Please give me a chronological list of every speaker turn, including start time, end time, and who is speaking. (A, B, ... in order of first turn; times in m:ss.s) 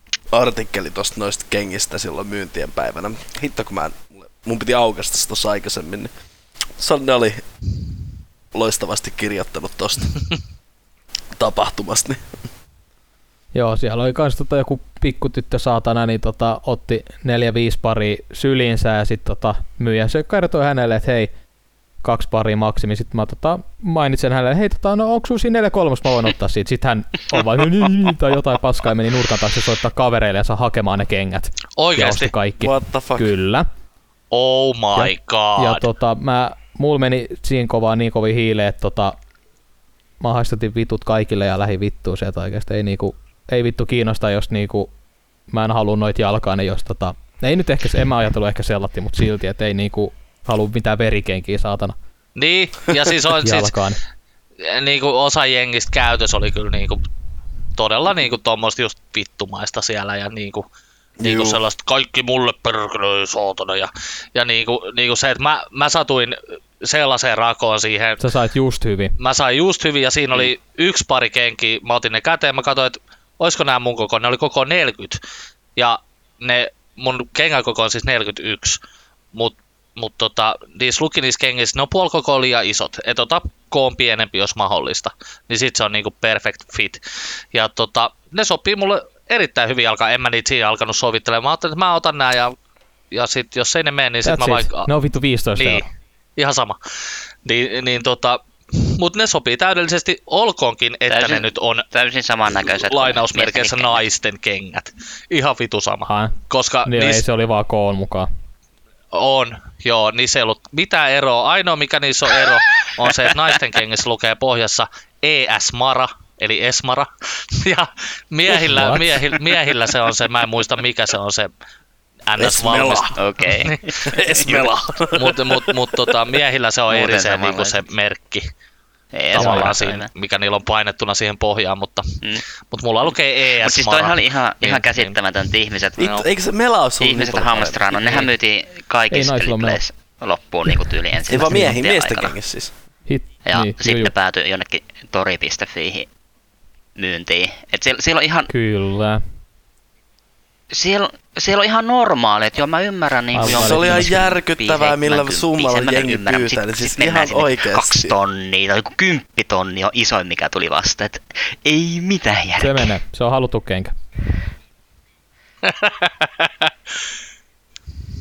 0:00.3-0:06.1 A
0:06.8-0:07.4 A
0:08.5-0:10.1 A
0:11.4-0:12.3 A
0:13.5-0:21.3 B
0:22.0-0:33.7 B
0:31.8-0:32.3 C
0:32.6-0:33.3 A
0:34.3-0:35.8 C
0:35.0-0:39.2 B
0:40.2-0:44.9 B
0:45.5-0:52.0 B
0:52.4-0:53.8 C
0:53.4-0:54.0 B
0:54.6-0:57.0 C
0:57.8-1:00.7 C
1:01.2-1:01.6 A
1:01.2-1:08.2 C
1:08.2-1:09.2 B
1:09.2-1:15.2 C
1:15.8-1:18.8 C
1:19.3-1:27.0 C
1:27.5-1:32.6 C
1:33.1-1:34.9 C
1:34.2-1:35.8 B
1:35.6-1:35.8 C
1:36.4-1:36.8 C
1:37.4-1:41.8 C
1:41.1-1:44.1 D
1:42.6-1:47.2 C
1:46.1-1:48.3 B
1:49.1-2:01.5 C
1:58.6-1:59.2 B
2:02.3-2:08.5 C
2:02.4-2:03.2 A
2:03.2-2:04.5 D
2:04.0-2:06.2 A
2:06.9-2:07.9 D
2:09.1-2:10.1 D
2:09.3-2:15.2 C
2:09.4-2:09.7 B
2:13.6-2:16.2 D
2:16.0-2:18.3 A
2:16.0-2:16.3 C
2:17.0-2:22.4 D
2:19.1-2:19.8 B
2:21.3-2:22.7 A
2:21.4-2:21.7 B
2:23.1-2:24.1 B
2:23.5-2:26.1 D
2:27.0-2:28.5 D
2:28.5-2:29.2 B
2:30.7-2:42.9 D
2:33.3-2:34.2 B
2:33.4-2:38.2 A
2:42.6-2:43.9 B
2:45.6-2:46.7 C